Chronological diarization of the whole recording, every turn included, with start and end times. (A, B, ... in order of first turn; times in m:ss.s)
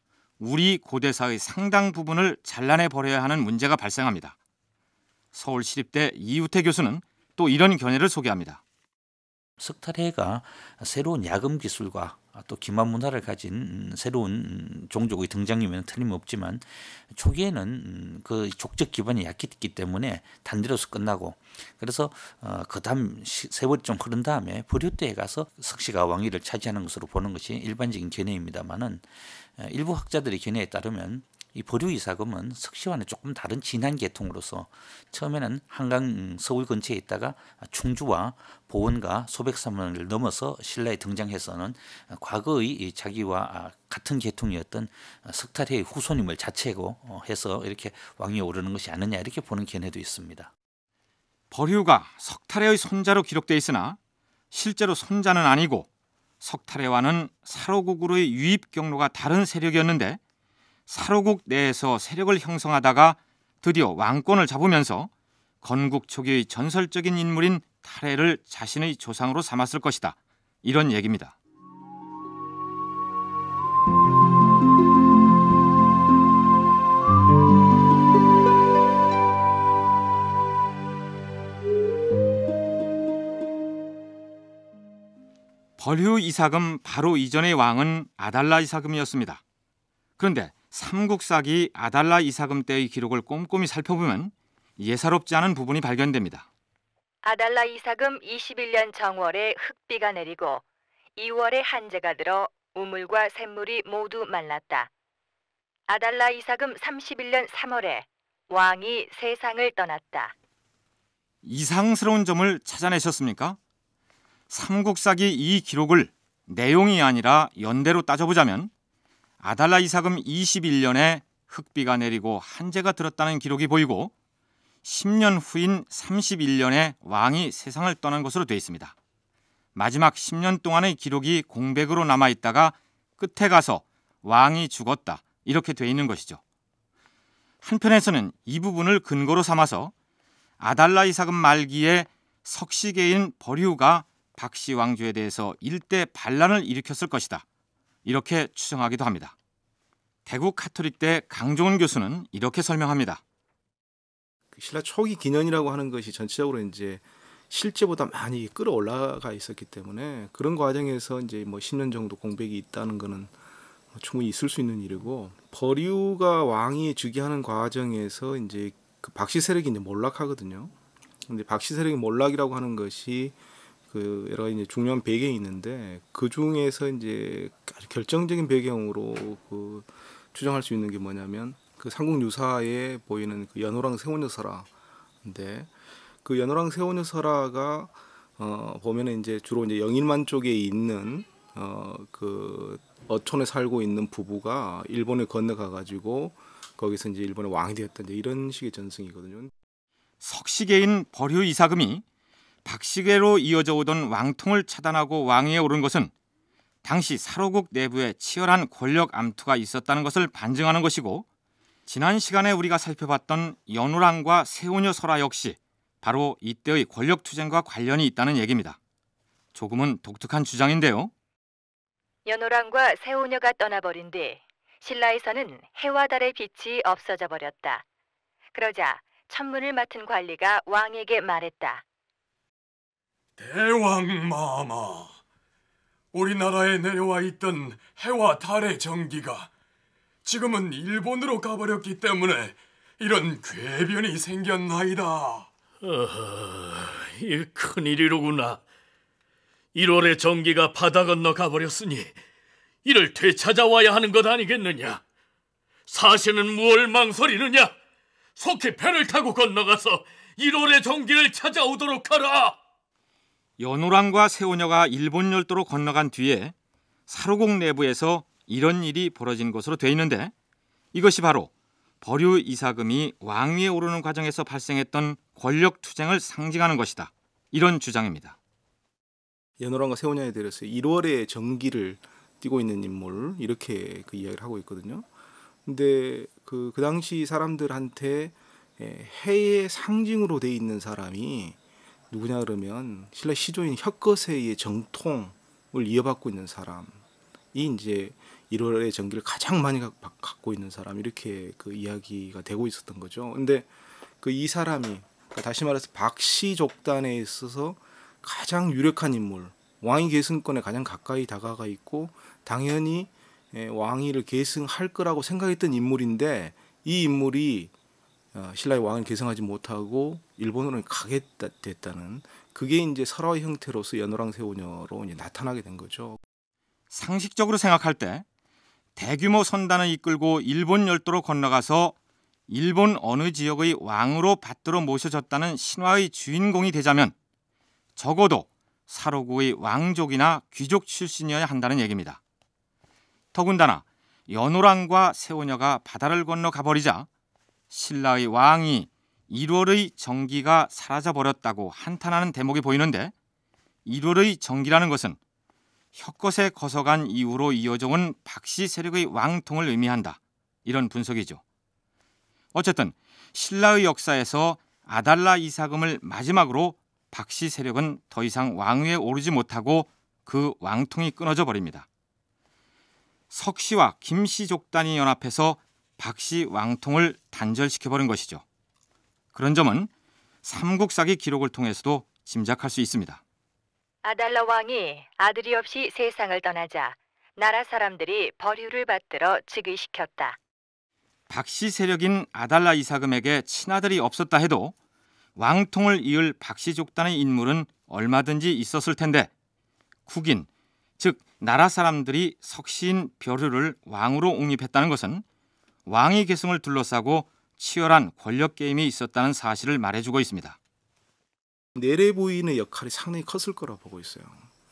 0:00.4-0:04.4 A
0:05.3-0:08.6 A
0:09.6-0:50.5 B
0:51.5-0:54.0 A
0:54.5-0:55.9 A
0:56.4-1:00.2 A
1:00.9-1:05.1 A
1:05.6-1:11.3 A
1:25.8-1:29.4 A
1:30.2-1:36.5 A
1:37.2-1:40.6 C
1:41.2-1:44.9 C
1:45.9-1:50.3 C
1:51.4-1:53.6 A
1:54.5-1:58.7 A
1:59.4-2:04.1 A
2:04.8-2:08.9 A
2:09.7-2:16.4 A
2:17.6-2:19.9 A
2:20.6-2:27.4 A
2:28.0-2:29.3 A
2:30.2-2:33.2 A
2:34.5-2:43.3 D
2:43.9-2:50.7 D
2:51.3-2:53.4 D
2:53.9-3:04.7 D
3:05.2-3:05.7 D
3:06.2-3:19.5 D
3:20.2-3:22.0 A
3:22.6-3:26.1 A
3:26.8-3:31.2 A
3:31.9-3:38.8 A
3:39.5-3:41.1 A
3:42.2-3:47.8 C
3:48.5-3:51.8 C
3:53.4-3:55.1 E
3:56.1-3:59.5 E
4:00.2-4:05.5 E
4:05.8-4:08.6 F
4:09.7-4:12.2 F
4:12.8-4:15.0 F
4:15.9-4:17.7 F
4:18.4-4:22.6 F
4:23.6-4:26.5 A
4:27.1-4:30.3 A
4:30.9-4:31.5 A
4:32.0-4:38.4 A
4:39.6-4:45.1 D
4:45.6-4:51.6 D
4:52.1-4:57.0 D
4:57.5-5:17.7 D
5:18.3-5:26.2 D
5:26.9-5:28.2 A
5:29.0-5:31.9 A
5:32.5-5:37.1 A
5:38.0-5:42.2 A
5:43.3-5:47.1 A
5:47.7-5:53.1 A
5:53.8-5:55.2 A
5:55.9-6:01.4 A
6:02.5-6:11.9 A
6:13.3-6:18.4 A
6:19.3-6:19.9 A
6:20.4-6:23.2 A
6:24.0-6:30.4 C
6:31.3-6:34.7 A
6:35.4-6:39.3 A
6:40.1-6:40.5 A
6:41.0-6:45.2 A
6:45.9-6:50.6 A
6:51.7-6:54.5 D